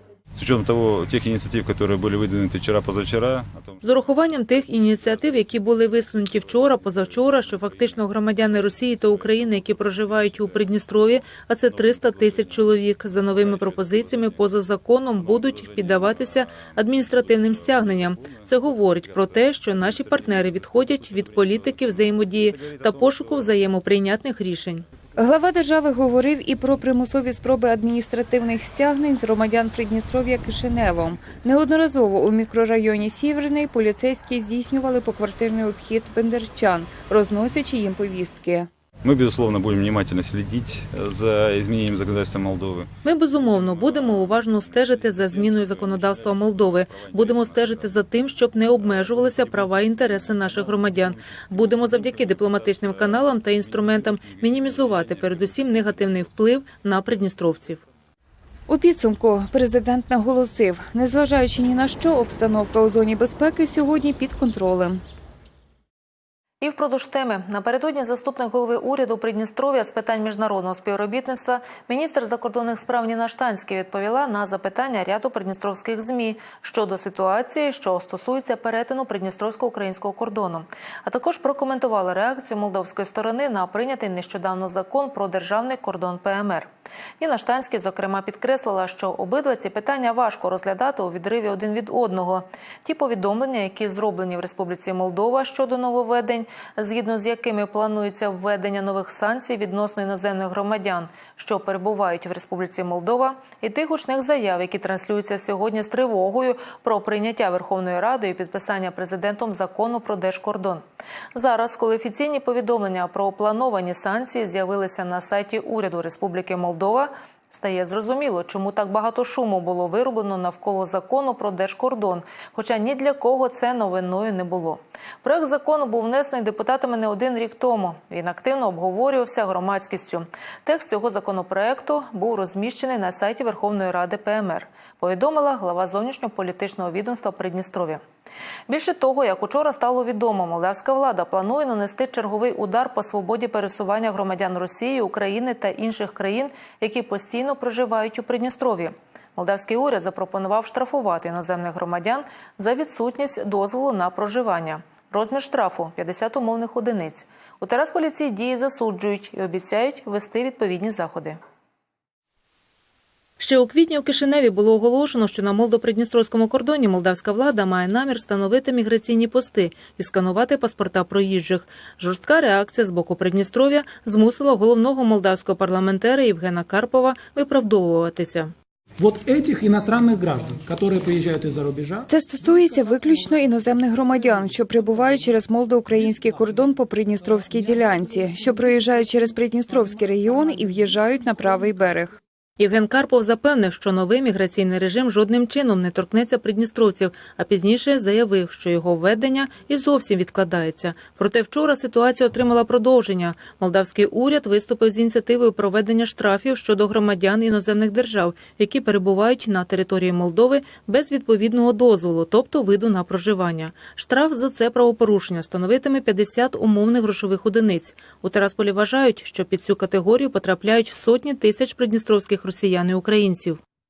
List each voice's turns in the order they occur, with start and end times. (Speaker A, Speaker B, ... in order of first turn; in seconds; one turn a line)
Speaker A: 0.3-3.8
Speaker B: 3.8-24.9
Speaker A: 5.0-14.6
Speaker A: 15.2-23.6
Speaker C: 25.2-38.7
Speaker A: 39.0-56.4
Speaker B: 43.0-57.8
Speaker C: 58.7-65.0
Speaker B: 66.6-86.7
Speaker B: 87.2-110.8
Speaker B: 111.3-138.0
Speaker B: 138.7-161.4
Speaker B: 163.4-178.5
Speaker D: 179.0-182.0
Speaker C: 182.1-192.2
Speaker B: 192.6-223.6